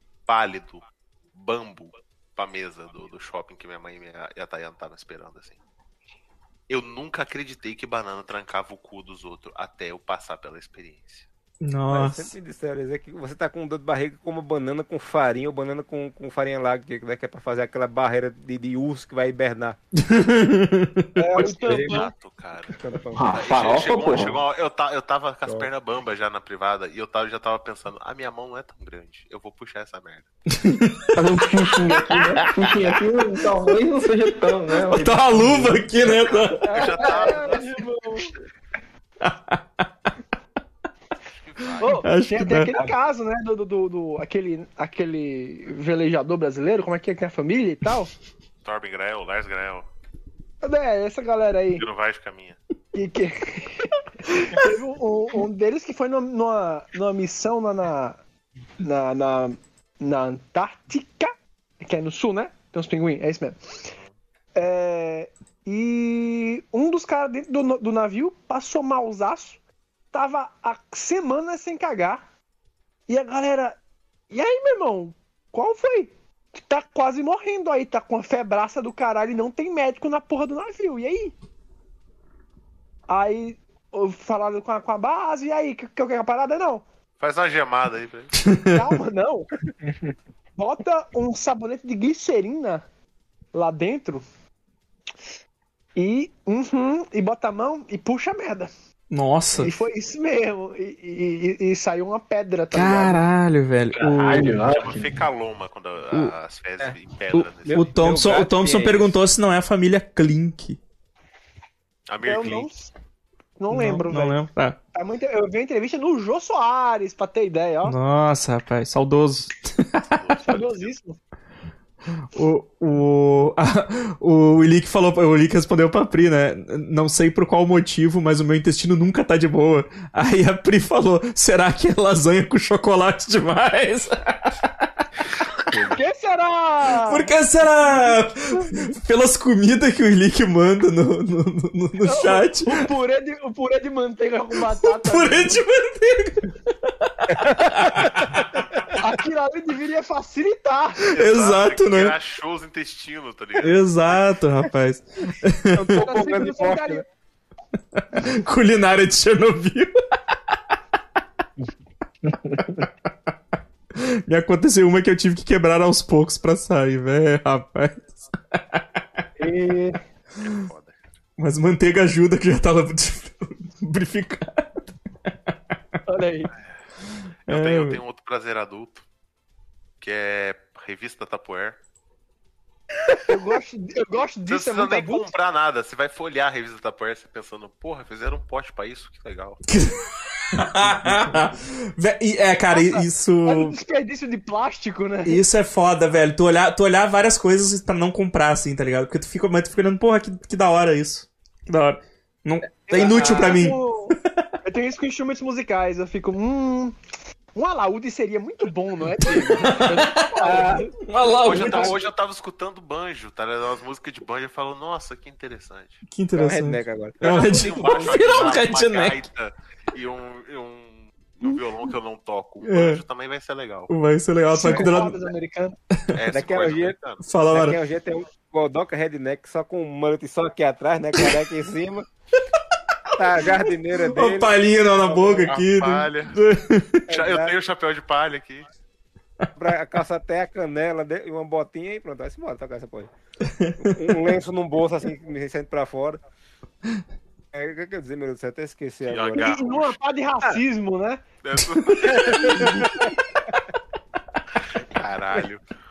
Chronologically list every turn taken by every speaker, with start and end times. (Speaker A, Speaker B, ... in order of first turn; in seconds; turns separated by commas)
Speaker A: 0.3-5.5, Speaker A: 6.7-11.2, Speaker B: 11.6-12.3, Speaker C: 11.9-19.8, Speaker B: 20.0-21.2, Speaker D: 21.2-22.1, Speaker A: 21.3-22.8, Speaker E: 21.4-22.1, Speaker C: 22.8-23.4, Speaker E: 23.1-24.4, Speaker A: 23.3-30.3, Speaker B: 30.5-31.2, Speaker E: 31.1-35.8, Speaker B: 31.9-32.9, Speaker A: 32.7-33.0, Speaker B: 34.9-36.9, Speaker A: 36.0-37.8, Speaker D: 36.6-38.3, Speaker E: 37.1-37.4, Speaker B: 39.2-39.8, Speaker A: 41.4-42.1, Speaker D: 41.8-48.1, Speaker B: 42.0-42.8, Speaker A: 48.6-49.9, Speaker D: 50.6-51.8, Speaker A: 51.7-52.6, Speaker D: 52.9-58.2, Speaker D: 58.8-63.7, Speaker D: 64.5-69.6, Speaker D: 70.1-72.2, Speaker D: 73.1-73.8, Speaker D: 74.3-81.3, Speaker D: 83.1-86.8, Speaker A: 87.2-88.4, Speaker B: 88.4-88.8, Speaker D: 88.7-89.5, Speaker D: 90.6-92.8, Speaker D: 93.5-94.2, Speaker D: 96.0-98.7, Speaker B: 99.1-99.8, Speaker D: 99.6-103.2, Speaker B: 102.7-104.6, Speaker E: 103.9-105.2, Speaker A: 104.5-107.8, Speaker C: 107.6-109.2, Speaker B: 107.7-110.8, Speaker A: 112.1-112.7, Speaker D: 112.2-112.9, Speaker D: 113.6-114.4, Speaker B: 113.7-114.8, Speaker D: 114.9-117.9, Speaker B: 117.8-120.1, Speaker A: 120.1-120.9, Speaker D: 120.5-121.2, Speaker B: 122.2-134.9, Speaker C: 135.7-136.0, Speaker D: 135.9-137.3, Speaker B: 137.0-142.9, Speaker D: 137.8-138.2, Speaker D: 142.0-145.6, Speaker B: 144.7-148.6, Speaker C: 147.4-148.1, Speaker D: 148.9-151.0, Speaker A: 151.1-153.8, Speaker B: 151.1-152.1, Speaker B: 153.6-156.0, Speaker C: 155.7-157.0, Speaker D: 156.0-157.0, Speaker B: 157.9-159.9, Speaker B: 162.5-162.9, Speaker B: 163.9-168.8, Speaker D: 169.4-170.0, Speaker A: 170.4-171.0, Speaker B: 171.4-175.3, Speaker D: 176.1-176.5, Speaker B: 177.5-178.0, Speaker A: 177.5-179.0, Speaker A: 180.0-181.8, Speaker D: 183.2-185.3, Speaker A: 184.5-189.6, Speaker B: 189.7-193.8, Speaker D: 192.7-195.4, Speaker B: 195.2-204.1, Speaker D: 202.9-206.9, Speaker C: 202.9-203.7, Speaker D: 207.5-210.9, Speaker B: 209.5-211.9, Speaker C: 210.3-210.9, Speaker A: 211.4-216.0, Speaker D: 211.5-211.9, Speaker B: 216.1-219.2, Speaker C: 216.3-218.1, Speaker A: 217.2-223.9, Speaker B: 222.6-223.0, Speaker B: 223.9-225.2, Speaker D: 224.5-225.8, Speaker A: 226.1-227.2, Speaker C: 226.3-226.9, Speaker B: 227.2-227.8, Speaker C: 227.5-232.1, Speaker C: 233.1-235.5, Speaker B: 234.1-237.1, Speaker A: 235.1-236.3, Speaker C: 237.1-237.6, Speaker A: 237.1-238.7, Speaker C: 239.6-243.1, Speaker B: 243.5-243.9, Speaker C: 243.8-246.2, Speaker C: 247.5-249.6, Speaker A: 249.0-250.0, Speaker D: 249.4-251.2, Speaker A: 251.4-252.8, Speaker C: 252.0-253.1, Speaker D: 252.3-253.1, Speaker A: 254.6-255.6